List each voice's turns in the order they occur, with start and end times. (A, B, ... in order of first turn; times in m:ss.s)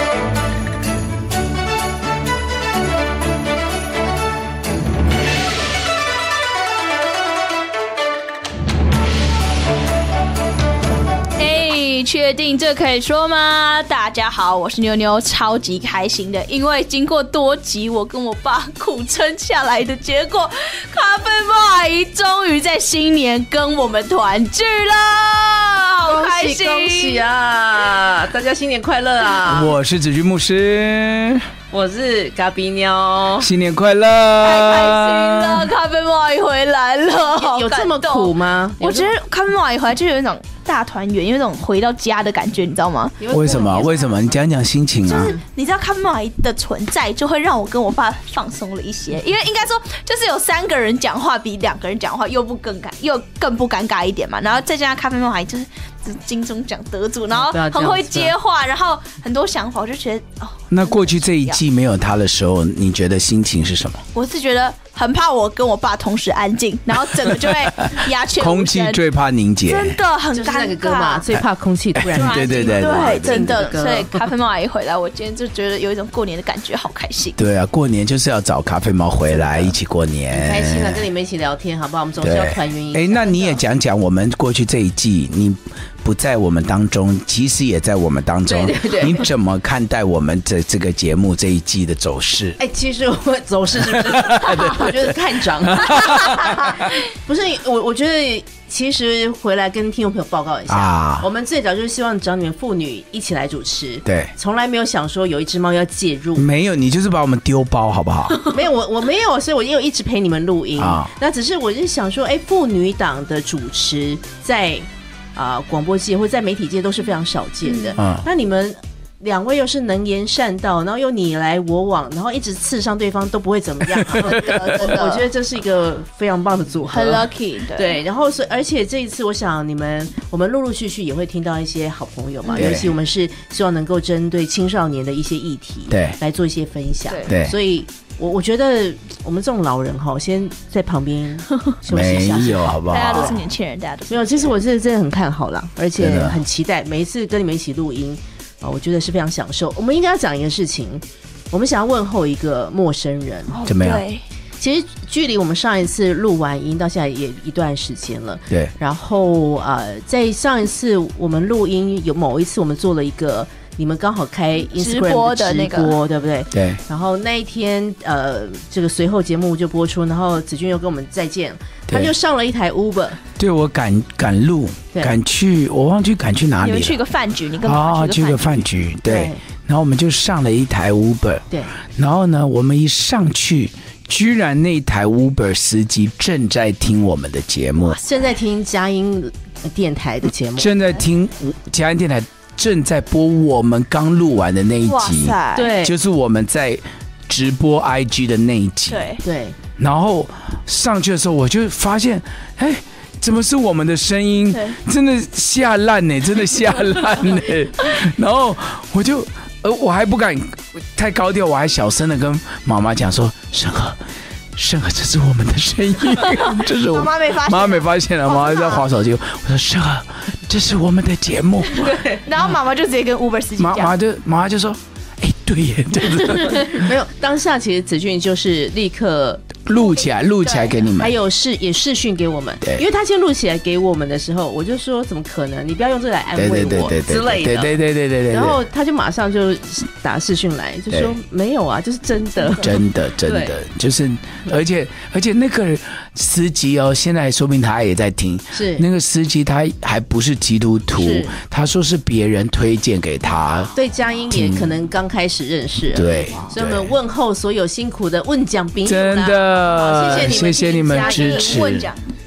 0:11.4-0:27.2 A
0:26.0-0:29.8 B
0:29.4-0:31.5 C
0:31.7-0:33.5 B
0:33.4-0:35.7 C
0:34.4-0:43.8 A
0:37.2-0:39.1 B
0:43.2-0:44.3 B
0:43.3-0:45.4 C
0:45.0-1:01.6 A
0:57.3-0:58.3 B
1:00.7-1:04.0 C
1:04.1-1:09.0 A
1:07.2-1:10.0 C
1:09.6-1:11.2 A
1:10.3-1:14.2 B
1:12.0-1:13.6 C
1:12.1-1:17.4 A
1:17.4-1:21.0 C
1:19.4-1:19.7 B
1:20.3-1:23.6 B
1:22.2-1:32.6 C
1:28.5-1:29.2 B
1:32.6-1:46.5 B
1:34.0-1:36.6 C
1:36.1-1:36.7 A
1:40.7-1:41.3 C
1:44.0-1:44.3 C
1:46.4-1:48.4 C
1:48.4-2:23.4 B
1:50.8-1:51.1 C
1:57.6-1:58.0 A
1:58.0-1:58.2 C
2:03.9-2:04.8 C
2:04.2-2:05.2 A
2:06.9-2:08.0 A
2:12.5-2:12.9 C
2:15.9-2:16.2 C
2:17.3-2:17.5 C
2:21.9-2:23.4 C
2:22.8-2:24.5 A
2:24.1-2:33.6 B
2:26.0-2:26.4 C
2:33.5-2:34.2 A
2:33.6-2:34.0 C
2:34.6-2:53.2 B
2:44.7-2:46.0 A
2:46.5-2:46.8 C
2:51.9-2:52.1 C
2:53.4-2:57.0 C
2:56.6-2:58.5 A
2:57.6-3:08.0 C
2:59.1-2:59.4 B
3:08.0-3:10.7 B
3:10.6-3:19.1 C
3:14.8-3:15.7 A
3:15.5-3:15.9 B
3:18.9-3:19.2 A
3:19.2-3:19.6 B
3:19.8-3:34.0 C
3:24.5-3:24.8 A
3:34.5-3:42.0 C
3:36.3-3:38.8 A
3:42.2-3:43.9 A
3:43.6-3:46.9 C
3:46.2-3:49.6 B
3:49.7-3:51.2 C
3:50.4-3:50.8 A
3:51.0-3:57.7 B
3:56.3-3:58.6 C
3:58.3-4:03.5 B
4:00.9-4:01.2 C
4:02.6-4:13.7 C
4:08.5-4:08.8 B
4:11.0-4:11.3 B
4:13.7-4:21.6 B
4:14.3-4:14.7 C
4:15.9-4:16.9 C
4:18.8-4:21.9 C
4:19.9-4:22.0 A